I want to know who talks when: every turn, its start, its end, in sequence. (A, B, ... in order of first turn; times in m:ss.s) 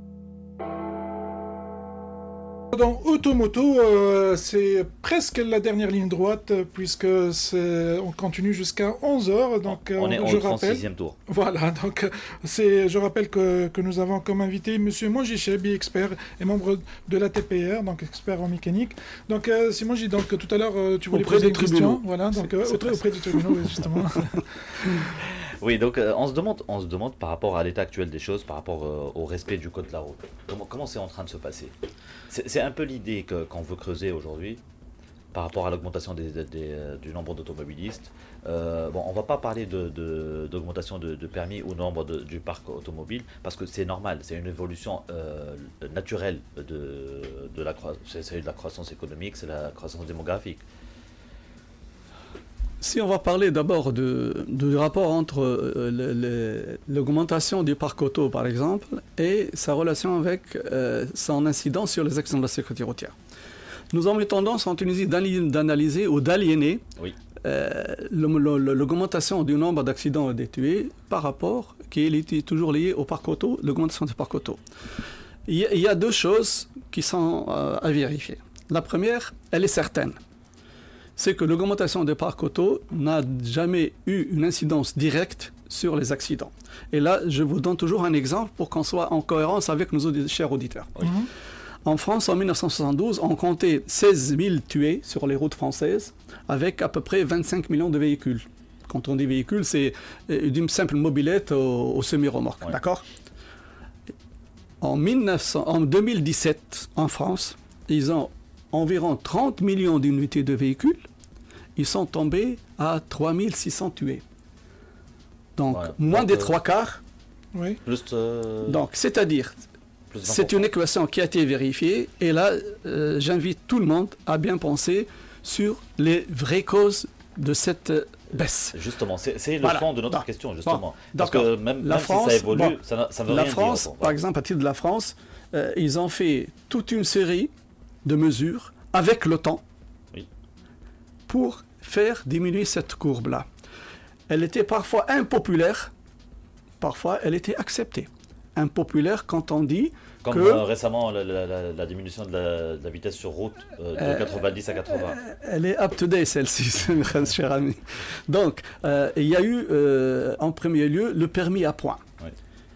0:02.7-0:24.4 A
0:09.6-0:11.2 B
0:21.1-0:23.8 C
0:25.6-0:31.7 B
0:32.3-0:34.6 B
0:35.3-0:50.6 B
0:52.8-1:03.2 C
1:03.9-1:06.8 C
1:07.4-1:14.6 C
1:15.4-1:20.2 C
1:21.2-1:30.9 C
1:31.0-1:31.3 A
1:31.8-1:43.0 C
1:44.8-1:51.0 C
1:51.8-1:54.2 C
1:55.6-1:57.0 C
1:55.7-1:56.6 B
1:57.8-1:58.8 B
1:58.6-1:59.6 C
2:00.1-2:00.7 B
2:00.2-2:08.8 C
2:08.7-2:14.2 B
2:09.6-2:17.5 C
2:18.0-2:19.6 C
2:21.3-2:23.5 C
2:24.3-2:25.9 C
2:26.8-2:30.6 C
2:30.2-2:35.2 B
2:34.0-2:42.0 C